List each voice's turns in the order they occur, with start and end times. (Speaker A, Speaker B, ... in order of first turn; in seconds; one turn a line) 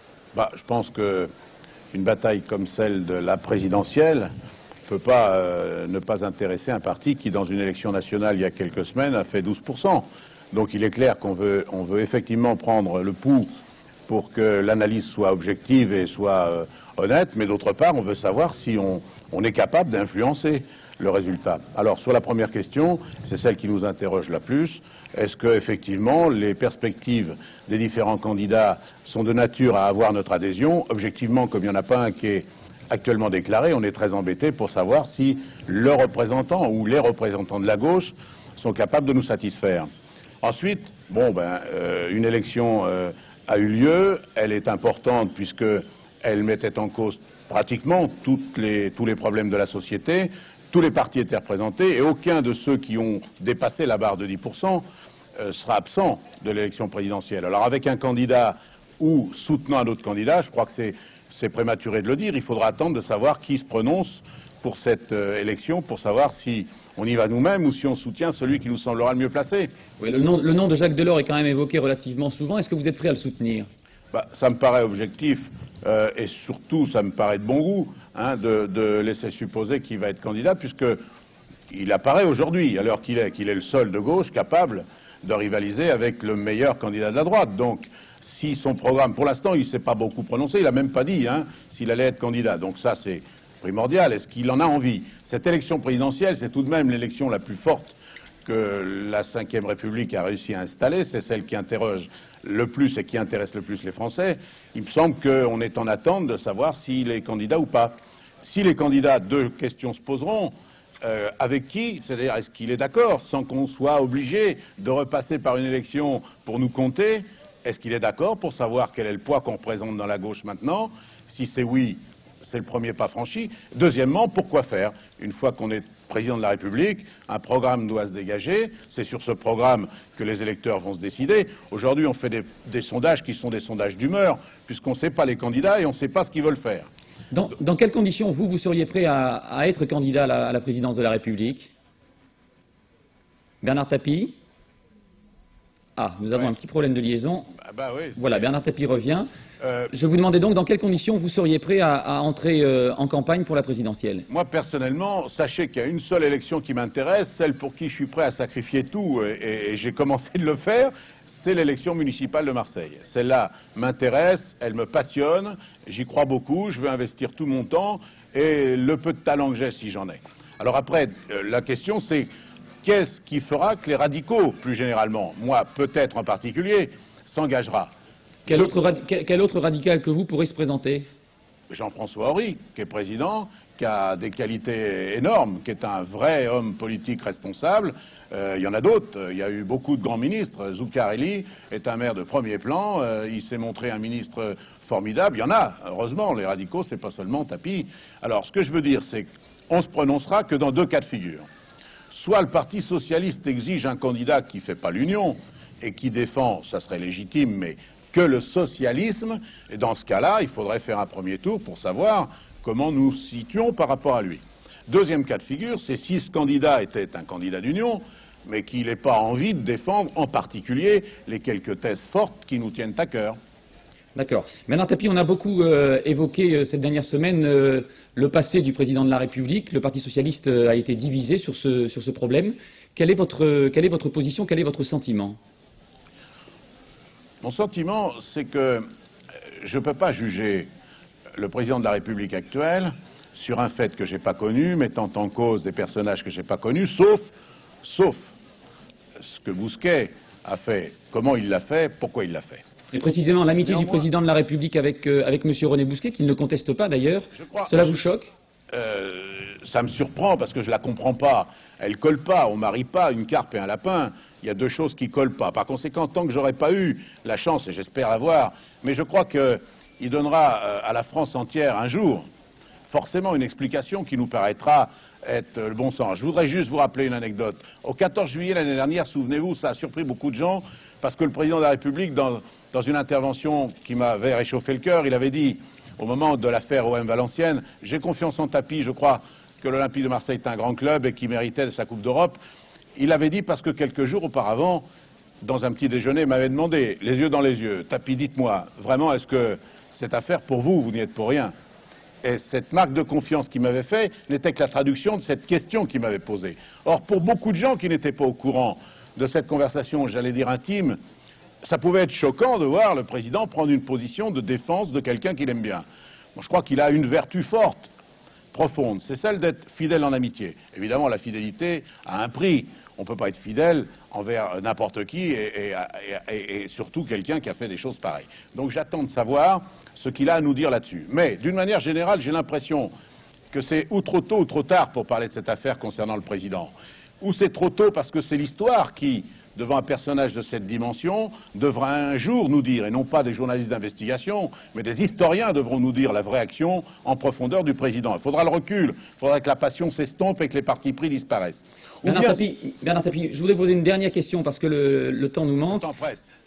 Speaker A: 0.3-1.3
Speaker A: 1.9-4.3
Speaker A: 4.8-13.5
Speaker A: 14.1-39.9
Speaker A: 40.4-54.8
Speaker A: 55.4-69.7
Speaker B: 70.0-73.7
Speaker A: 74.1-81.0
Speaker A: 81.7-136.9
Speaker B: 137.3-141.7
Speaker B: 143.6-144.3
Speaker B: 146.0-147.5
Speaker A: 147.5-148.5
Speaker B: 148.2-149.3
Speaker A: 149.6-149.9
Speaker B: 149.9-154.2
Speaker A: 154.3-172.3
Speaker A: 172.8-177.9
Speaker A: 178.5-178.7
Speaker B: 178.5-181.1
Speaker A: 181.7-201.4
Speaker A: 202.1-223.4
Speaker B: 224.1-235.4
Speaker A: 237.4-238.8
Speaker A: 239.6-240.7
Speaker A: 241.3-247.3
Speaker A: 247.8-248.3
Speaker A: 249.2-252.6
Speaker B: 252.9-258.3
Speaker A: 253.6-254.1
Speaker A: 257.3-257.9
Speaker A: 258.7-272.2
Speaker A: 272.9-292.4
Speaker A: 292.9-294.8
Speaker A: 295.4-301.5
Speaker A: 302.2-311.0
Speaker A: 311.6-317.9
Speaker A: 318.5-332.9
Speaker A: 333.5-352.4
Speaker B: 352.0-355.9
Speaker A: 355.7-356.2